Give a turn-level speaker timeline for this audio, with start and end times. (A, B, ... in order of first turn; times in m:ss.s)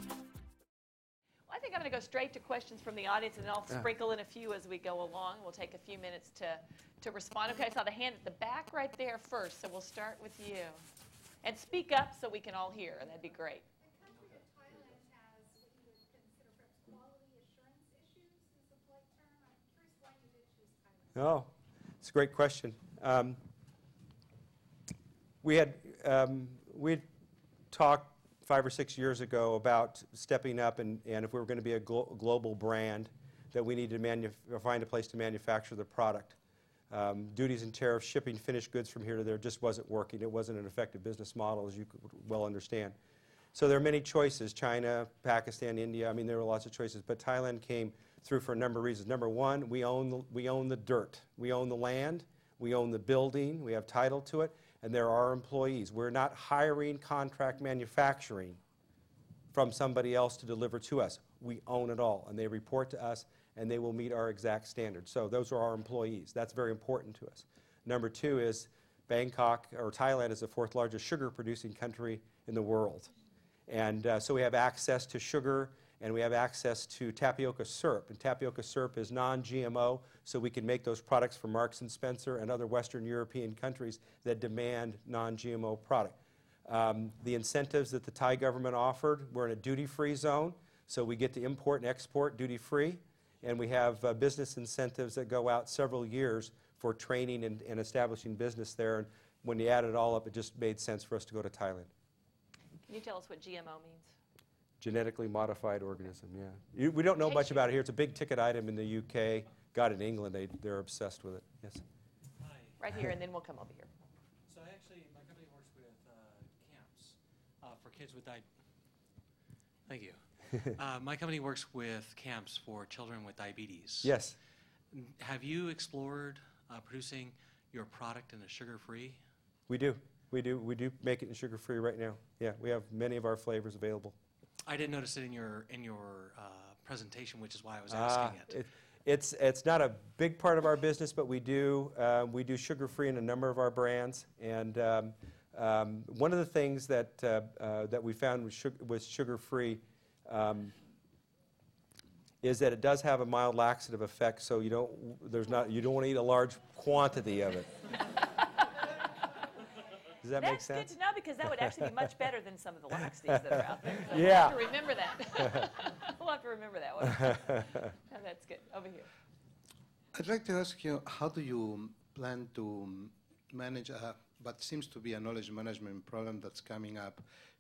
0:01.5-0:10.8 A
0:11.4-0:13.7 A
0:14.2-0:18.5 B
0:19.2-0:20.7 B
0:21.1-0:23.4 C
0:25.4-0:27.0 C
0:27.7-0:36.4 C
0:36.9-0:43.0 C
0:43.5-0:58.6 C
0:59.5-1:13.1 C
1:13.7-1:26.2 C
1:26.7-1:41.9 C
1:42.9-1:44.1 A
1:44.8-1:51.8 C
1:47.2-1:47.7 A
1:52.4-1:52.8 D
1:52.8-1:53.9 A
1:54.5-1:58.5 D
1:59.9-2:04.1 D
2:04.0-2:04.4 C
2:04.9-2:09.2 D
2:09.7-2:14.2 C
2:14.7-2:18.6 D
2:17.9-2:30.8 C
2:32.4-2:37.7 C
2:40.2-2:40.9 C
2:40.4-2:49.1 A
2:44.1-2:44.6 C
2:50.2-2:57.2 E